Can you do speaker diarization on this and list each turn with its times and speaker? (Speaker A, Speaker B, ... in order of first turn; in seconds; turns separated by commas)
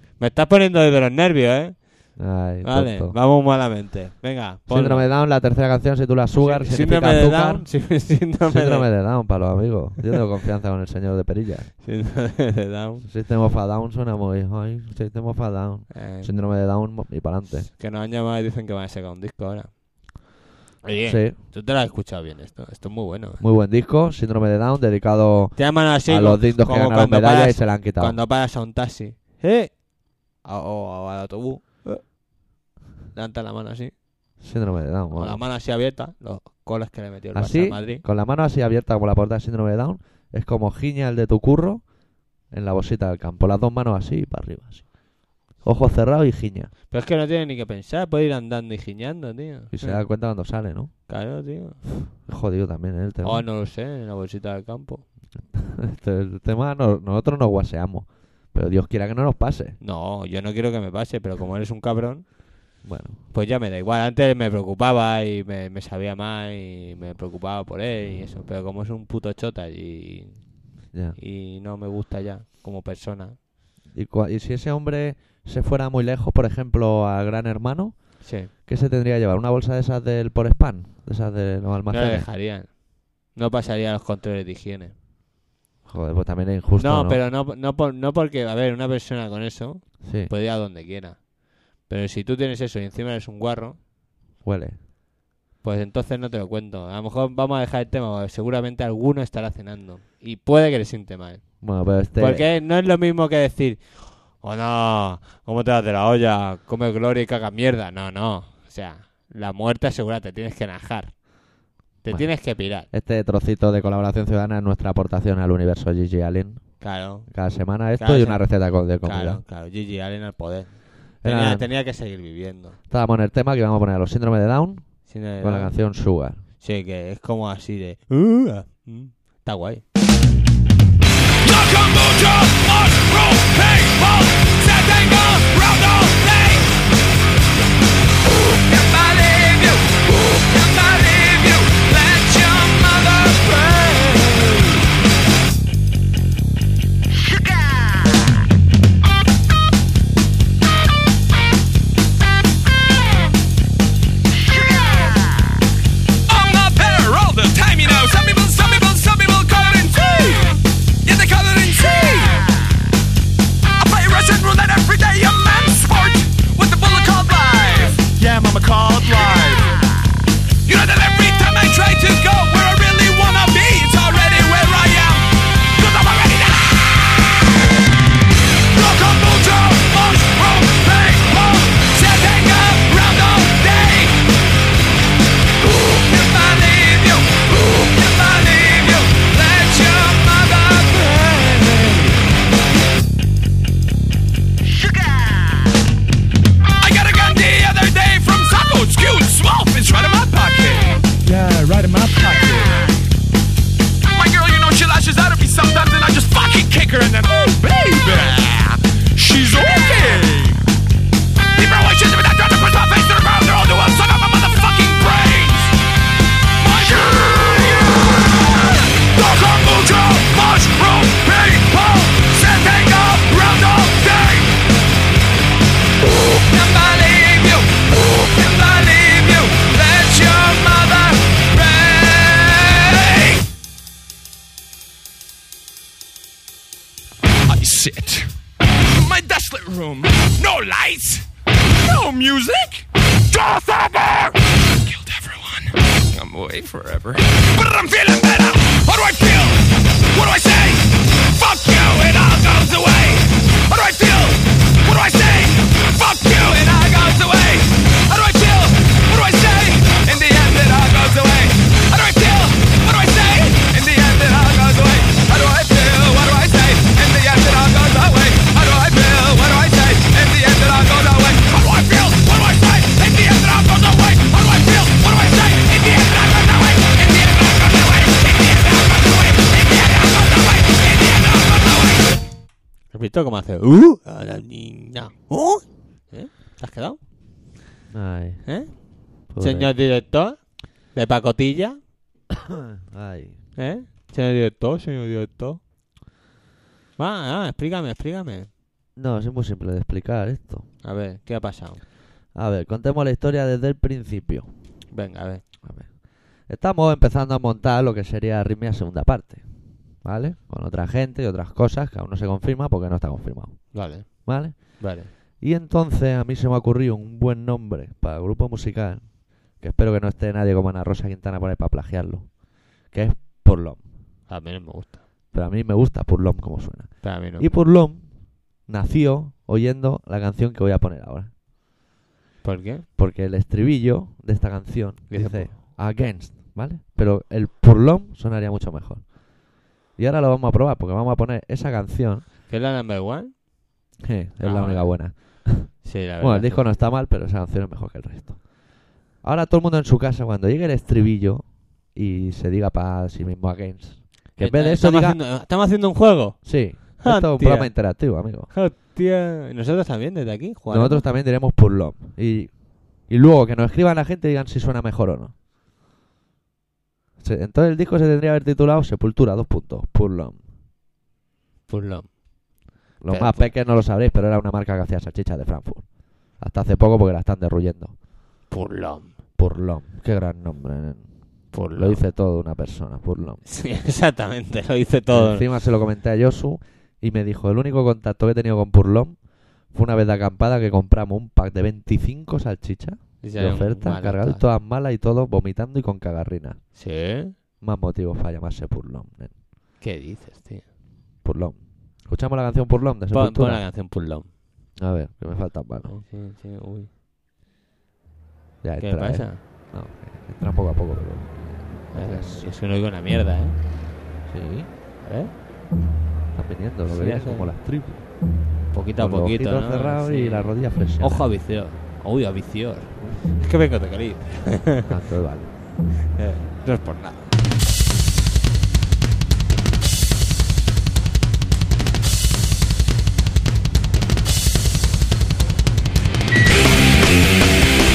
Speaker A: 0.1-5.1, Speaker B: 2.1-3.1, Speaker B: 4.7-7.7, Speaker A: 6.4-8.9, Speaker B: 8.4-11.7, Speaker A: 11.8-13.1, Speaker B: 13.0-17.7, Speaker A: 15.9-16.3, Speaker A: 17.6-20.1, Speaker A: 20.8-23.4, Speaker B: 21.1-21.4, Speaker B: 23.4-28.2, Speaker A: 25.6-32.1, Speaker A: 33.1-33.9, Speaker B: 34.4-35.4, Speaker A: 35.1-38.0, Speaker B: 37.3-41.9, Speaker B: 42.5-45.0, Speaker B: 45.5-46.7, Speaker A: 46.9-50.0, Speaker B: 49.7-50.9, Speaker A: 51.1-51.9, Speaker B: 52.2-53.4, Speaker A: 53.2-55.0, Speaker B: 55.5-59.8, Speaker A: 59.8-62.5, Speaker B: 62.8-63.2, Speaker A: 63.3-73.4, Speaker B: 70.9-71.2, Speaker B: 73.9-82.3, Speaker A: 78.2-78.5, Speaker A: 81.9-84.9, Speaker B: 85.8-87.2, Speaker A: 86.8-93.8, Speaker B: 90.0-90.3, Speaker B: 94.4-94.8, Speaker A: 95.6-111.3, Speaker B: 101.6-102.5, Speaker A: 112.0-112.9, Speaker B: 112.1-119.4, Speaker A: 116.8-117.3, Speaker A: 118.0-122.8, Speaker B: 121.2-121.7, Speaker B: 122.9-126.4, Speaker A: 125.1-125.8, Speaker A: 126.6-129.8, Speaker C: 131.4-136.7, Speaker C: 138.7-144.8, Speaker C: 156.3-162.5, Speaker C: 163.8-169.8, Speaker C: 170.6-176.9, Speaker C: 178.7-184.2, Speaker C: 186.0-192.2, Speaker C: 196.8-202.9, Speaker C: 204.1-210.6, Speaker C: 211.6-215.8, Speaker C: 216.6-224.6, Speaker C: 226.4-233.5, Speaker C: 237.4-282.2, Speaker A: 282.9-287.0, Speaker B: 287.9-288.5, Speaker A: 288.4-291.8, Speaker B: 289.3-289.7, Speaker B: 292.5-293.4, Speaker A: 293.6-295.6, Speaker A: 297.0-298.5, Speaker B: 298.9-300.6, Speaker A: 300.8-301.8, Speaker B: 302.3-304.5, Speaker A: 304.9-305.4, Speaker B: 305.6-309.5, Speaker B: 310.0-322.3, Speaker A: 313.7-315.1, Speaker B: 322.9-323.8, Speaker A: 324.3-325.0, Speaker B: 325.3-331.3, Speaker A: 327.0-327.5, Speaker A: 332.4-332.9, Speaker B: 333.0-339.2, Speaker A: 335.1-335.6, Speaker B: 339.9-342.2, Speaker A: 342.5-343.4, Speaker B: 344.0-348.5, Speaker A: 344.4-346.7, Speaker B: 349.2-355.2, Speaker A: 354.4-357.8, Speaker B: 356.4-358.5, Speaker A: 358.5-361.1, Speaker B: 360.7-362.5, Speaker B: 363.1-365.3, Speaker B: 367.2-370.4, Speaker A: 371.7-372.1, Speaker B: 373.0-378.0, Speaker A: 373.1-373.6, Speaker A: 378.5-379.1, Speaker B: 379.4-383.4, Speaker A: 381.5-382.0, Speaker A: 383.4-385.5, Speaker B: 385.1-396.6, Speaker A: 393.2-394.4, Speaker A: 396.8-397.4, Speaker B: 397.6-399.4, Speaker A: 399.8-400.6, Speaker B: 401.2-403.6, Speaker A: 403.1-404.3, Speaker B: 404.8-406.0, Speaker A: 405.9-406.9, Speaker B: 408.6-412.5, Speaker A: 408.8-409.4, Speaker A: 411.9-413.5, Speaker B: 414.3-414.7, Speaker A: 415.0-415.3, Speaker B: 416.3-418.1, Speaker A: 416.9-417.5, Speaker A: 418.7-424.9, Speaker B: 419.0-421.3, Speaker B: 424.9-425.5, Speaker A: 426.1-427.3